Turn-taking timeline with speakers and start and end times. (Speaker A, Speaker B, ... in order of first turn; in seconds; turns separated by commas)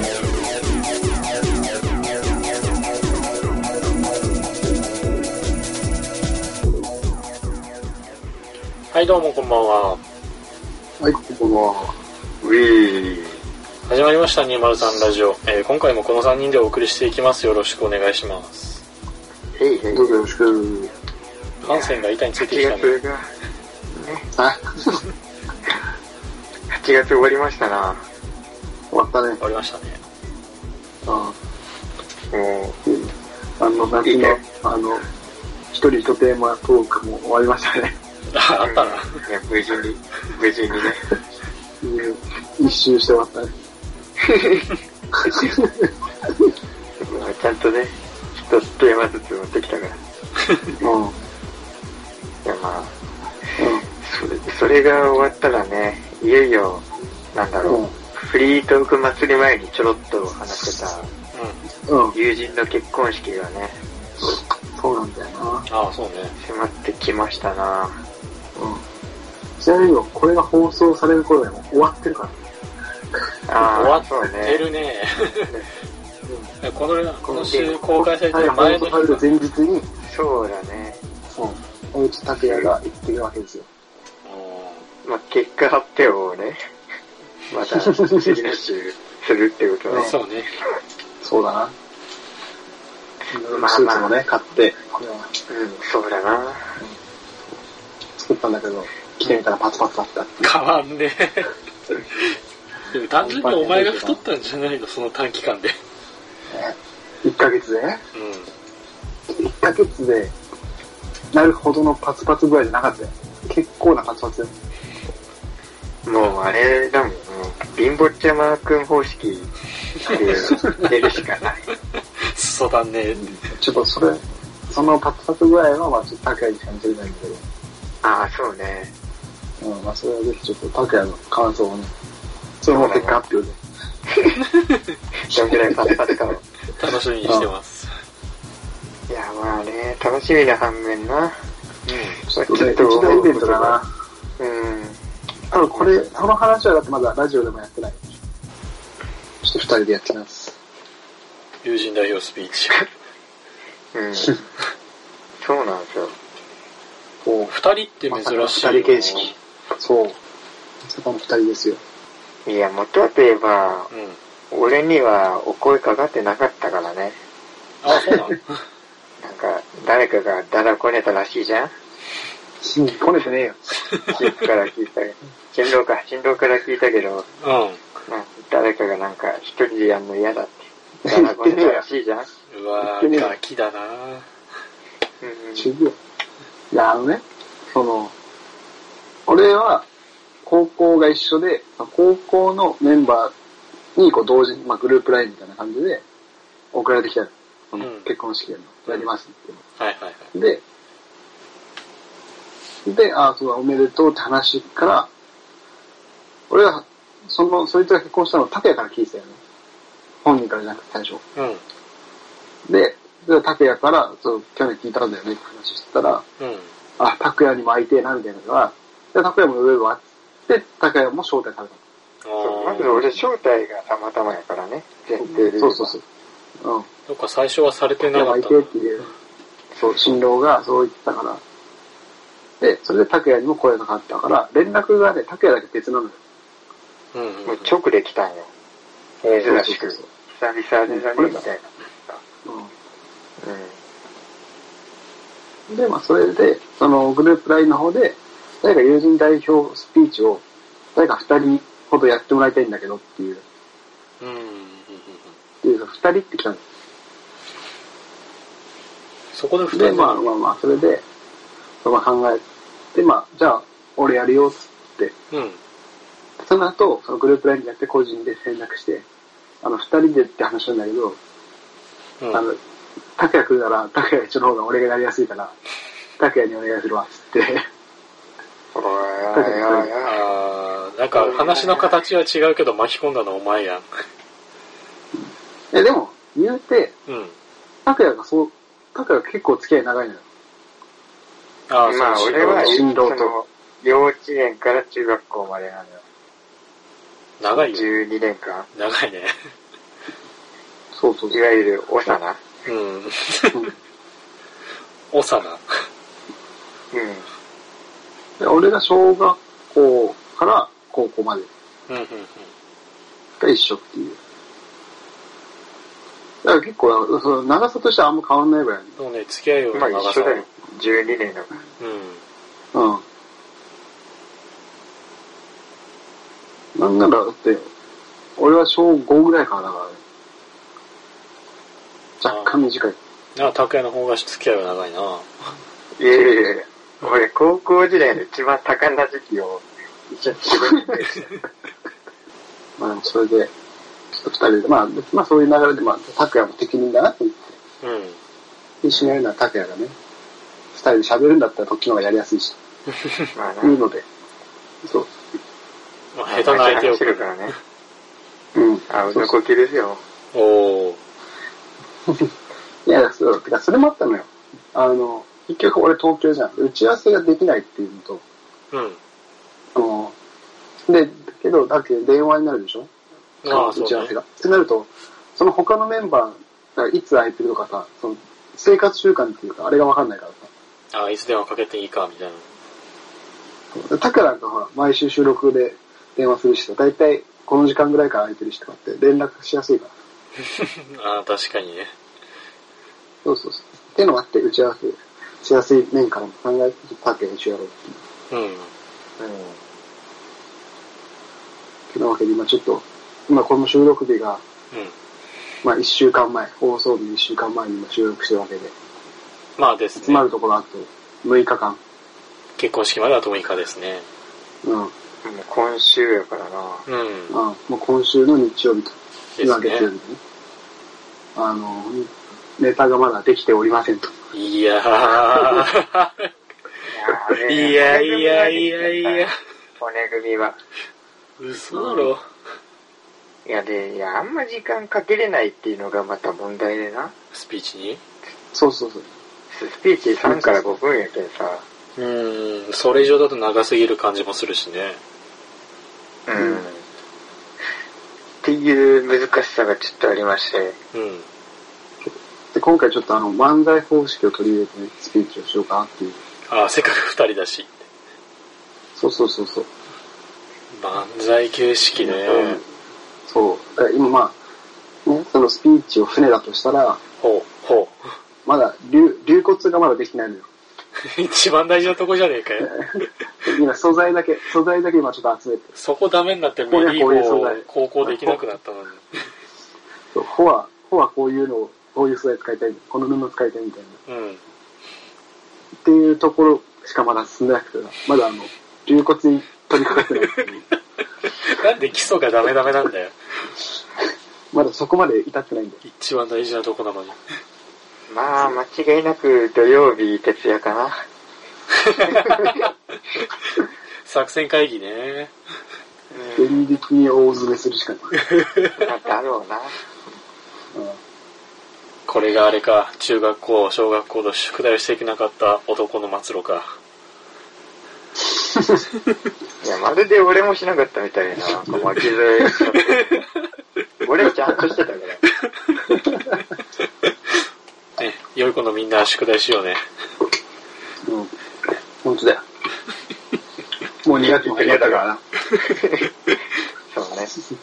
Speaker A: 8.9-10.0, Speaker B: 11.0-11.9, Speaker C: 12.4-13.4, Speaker A: 13.9-18.8, Speaker C: 19.6-20.2, Speaker B: 19.9-20.9, Speaker A: 21.6-23.0, Speaker C: 21.6-23.3, Speaker C: 23.9-24.3, Speaker B: 24.3-25.0, Speaker C: 26.7-28.0, Speaker B: 28.9-29.4, Speaker A: 29.4-30.0, Speaker B: 31.1-31.4, Speaker C: 32.3-32.8, Speaker B: 32.9-35.1, Speaker C: 34.0-34.4, Speaker B: 35.7-38.0, Speaker A: 38.3-39.2, Speaker C: 38.6-41.0, Speaker B: 41.8-43.5, Speaker C: 44.3-44.7, Speaker B: 45.2-45.9, Speaker C: 47.0-50.0, Speaker B: 50.8-51.2, Speaker C: 52.5-53.0, Speaker B: 53.6-53.9, Speaker C: 54.0-61.1, Speaker B: 57.6-57.9, Speaker A: 61.3-61.6, Speaker B: 61.9-62.2, Speaker C: 62.1-63.8, Speaker B: 64.3-65.7, Speaker A: 65.7-66.3, Speaker C: 66.4-68.0, Speaker B: 68.6-68.8, Speaker B: 69.6-72.4, Speaker C: 73.5-74.7, Speaker A: 73.6-75.5, Speaker B: 76.3-76.5, Speaker A: 76.6-79.3, Speaker B: 77.2-79.9, Speaker C: 77.5-77.8, Speaker C: 80.1-81.0, Speaker B: 81.3-83.7, Speaker C: 82.3-82.7, Speaker A: 84.2-84.8, Speaker C: 85.0-86.6, Speaker C: 87.5-90.2, Speaker B: 87.9-88.3, Speaker A: 90.0-90.5, Speaker B: 91.2-91.7, Speaker B: 93.3-95.3, Speaker C: 93.5-94.2, Speaker C: 95.5-96.7, Speaker B: 98.2-100.5, Speaker A: 100.4-101.5, Speaker A: 102.9-105.8, Speaker B: 103.2-104.2, Speaker B: 106.5-108.0, Speaker A: 108.1-108.5, Speaker B: 109.4-110.3, Speaker B: 111.3-114.6, Speaker C: 116.0-119.5, Speaker C: 120.1-121.7, Speaker B: 120.1-120.9, Speaker A: 122.3-123.2, Speaker B: 123.1-127.4, Speaker C: 128.0-128.9, Speaker B: 129.6-131.9, Speaker B: 132.6-133.6, Speaker C: 132.7-133.2, Speaker C: 134.2-134.4, Speaker C: 135.3-136.4, Speaker B: 135.3-136.1, Speaker A: 136.8-137.9, Speaker B: 137.2-137.5, Speaker C: 139.1-141.3, Speaker C: 141.9-143.8, Speaker B: 142.3-143.9, Speaker C: 144.4-145.0, Speaker B: 145.5-148.2, Speaker C: 145.6-146.3, Speaker B: 149.4-150.6, Speaker A: 151.6-152.8, Speaker C: 153.9-154.4, Speaker C: 155.4-156.1, Speaker B: 157.2-157.5, Speaker A: 157.5-159.3, Speaker B: 158.1-160.2, Speaker B: 160.8-161.8, Speaker C: 162.4-163.9, Speaker A: 163.9-164.2, Speaker C: 164.5-167.2, Speaker A: 167.8-168.6, Speaker B: 167.9-168.2, Speaker C: 169.2-171.7, Speaker B: 172.6-173.6, Speaker C: 174.1-177.2, Speaker A: 177.4-177.8, Speaker C: 178.1-182.3, Speaker B: 181.0-181.8, Speaker A: 182.5-184.3, Speaker B: 182.8-183.3, Speaker C: 185.2-185.7, Speaker B: 185.6-185.9, Speaker B: 186.7-188.1, Speaker B: 189.3-189.8, Speaker B: 190.4-193.3, Speaker B: 193.9-196.0, Speaker B: 196.7-199.6, Speaker A: 197.8-198.1, Speaker A: 199.8-200.3, Speaker B: 200.3-200.6, Speaker B: 202.8-205.1, Speaker B: 206.5-209.4, Speaker B: 210.2-211.2, Speaker A: 211.3-211.6, Speaker B: 212.7-216.2, Speaker A: 216.4-216.7, Speaker B: 217.0-221.8, Speaker A: 222.2-223.2, Speaker C: 222.4-225.9, Speaker B: 225.2-226.0, Speaker B: 226.6-226.9, Speaker A: 227.1-228.7, Speaker B: 228.1-229.1, Speaker B: 229.8-231.4, Speaker B: 232.6-236.2, Speaker A: 237.1-237.7, Speaker C: 237.5-238.5, Speaker B: 239.3-240.1, Speaker C: 239.4-242.2, Speaker B: 240.9-241.4, Speaker B: 242.4-242.7, Speaker C: 243.4-243.8, Speaker B: 245.7-250.4, Speaker B: 250.9-253.4, Speaker A: 254.2-255.3, Speaker B: 255.6-256.6, Speaker A: 259.3-260.3, Speaker B: 259.7-261.0, Speaker B: 261.8-262.4, Speaker B: 262.9-265.1, Speaker A: 265.3-265.6, Speaker B: 266.4-269.1, Speaker B: 269.6-271.2, Speaker A: 272.2-272.4, Speaker B: 272.3-272.6, Speaker B: 273.2-275.6, Speaker B: 276.2-277.6, Speaker C: 278.8-280.2, Speaker B: 279.3-279.9, Speaker A: 280.0-283.9, Speaker C: 281.1-282.0, Speaker B: 285.7-286.9, Speaker A: 287.1-287.3, Speaker B: 287.9-290.2, Speaker A: 291.7-292.8, Speaker C: 291.8-296.0, Speaker B: 292.1-293.4, Speaker A: 297.4-298.0, Speaker C: 297.5-298.7, Speaker A: 298.8-299.4, Speaker B: 300.9-301.4, Speaker C: 301.3-302.4, Speaker A: 302.6-303.6, Speaker A: 305.1-305.6, Speaker C: 306.9-307.2, Speaker B: 308.4-311.5, Speaker A: 311.9-312.5, Speaker B: 313.4-314.2, Speaker B: 316.4-318.9, Speaker A: 319.0-320.4, Speaker C: 319.7-321.5, Speaker A: 321.8-322.2, Speaker B: 322.7-323.0, Speaker B: 326.8-327.7, Speaker B: 328.4-330.0, Speaker B: 332.2-333.0, Speaker A: 332.2-332.6, Speaker A: 333.4-335.3, Speaker C: 336.0-341.2, Speaker B: 336.1-336.5, Speaker B: 342.8-343.5, Speaker B: 344.1-347.4, Speaker A: 347.8-348.2, Speaker B: 348.8-349.9, Speaker C: 348.9-349.2, Speaker B: 350.7-352.6, Speaker C: 353.3-353.8, Speaker B: 353.6-354.1, Speaker A: 356.1-357.5, Speaker C: 356.3-357.5, Speaker B: 358.6-359.4, Speaker C: 358.9-360.0, Speaker A: 360.3-361.0, Speaker B: 362.9-368.2, Speaker A: 368.7-369.0, Speaker B: 369.8-370.1, Speaker B: 370.9-372.9, Speaker A: 373.4-374.1, Speaker B: 373.5-380.5, Speaker A: 380.9-382.5, Speaker B: 383.7-389.9, Speaker A: 390.6-391.9, Speaker B: 393.2-398.0, Speaker A: 398.3-398.7, Speaker C: 399.2-399.6, Speaker B: 401.9-404.4, Speaker B: 405.6-408.7, Speaker A: 409.6-410.2, Speaker B: 410.0-411.8, Speaker A: 412.6-414.1, Speaker B: 414.6-414.9, Speaker C: 415.2-416.8, Speaker A: 416.9-417.3, Speaker B: 417.3-420.2, Speaker A: 419.4-419.9, Speaker B: 421.4-424.1, Speaker A: 424.3-426.3, Speaker C: 426.9-430.6, Speaker A: 427.3-429.3, Speaker A: 431.4-432.2, Speaker B: 431.7-432.1, Speaker C: 433.4-437.1, Speaker A: 437.3-438.0, Speaker B: 438.5-439.1, Speaker C: 439.5-441.6, Speaker B: 440.2-440.8, Speaker A: 442.0-445.0, Speaker C: 446.3-446.8, Speaker B: 446.4-446.6, Speaker C: 448.4-450.8, Speaker A: 450.9-451.3, Speaker B: 452.0-456.2, Speaker A: 456.5-457.8, Speaker B: 458.9-459.7, Speaker A: 460.7-462.6, Speaker B: 462.0-462.6, Speaker B: 463.3-464.4, Speaker B: 465.1-467.0, Speaker A: 467.2-468.0, Speaker B: 468.4-470.5, Speaker A: 471.1-473.0, Speaker B: 472.6-472.9, Speaker B: 473.4-475.7, Speaker A: 475.8-479.2, Speaker B: 476.7-478.4, Speaker B: 480.1-484.0, Speaker A: 484.1-484.4, Speaker B: 485.8-490.6, Speaker A: 491.4-493.1, Speaker B: 494.5-495.8, Speaker A: 495.8-497.2, Speaker C: 498.1-501.0, Speaker A: 501.9-502.6, Speaker A: 504.0-505.3, Speaker C: 506.1-506.7, Speaker B: 506.4-508.2, Speaker C: 508.8-509.7, Speaker B: 510.7-511.0, Speaker A: 512.1-516.7, Speaker B: 518.4-518.8, Speaker C: 519.6-523.2, Speaker C: 524.0-525.2, Speaker B: 525.9-526.4, Speaker A: 528.0-529.8, Speaker B: 532.0-532.4, Speaker B: 534.0-535.2, Speaker C: 534.2-535.0, Speaker C: 535.6-536.1, Speaker C: 536.9-537.3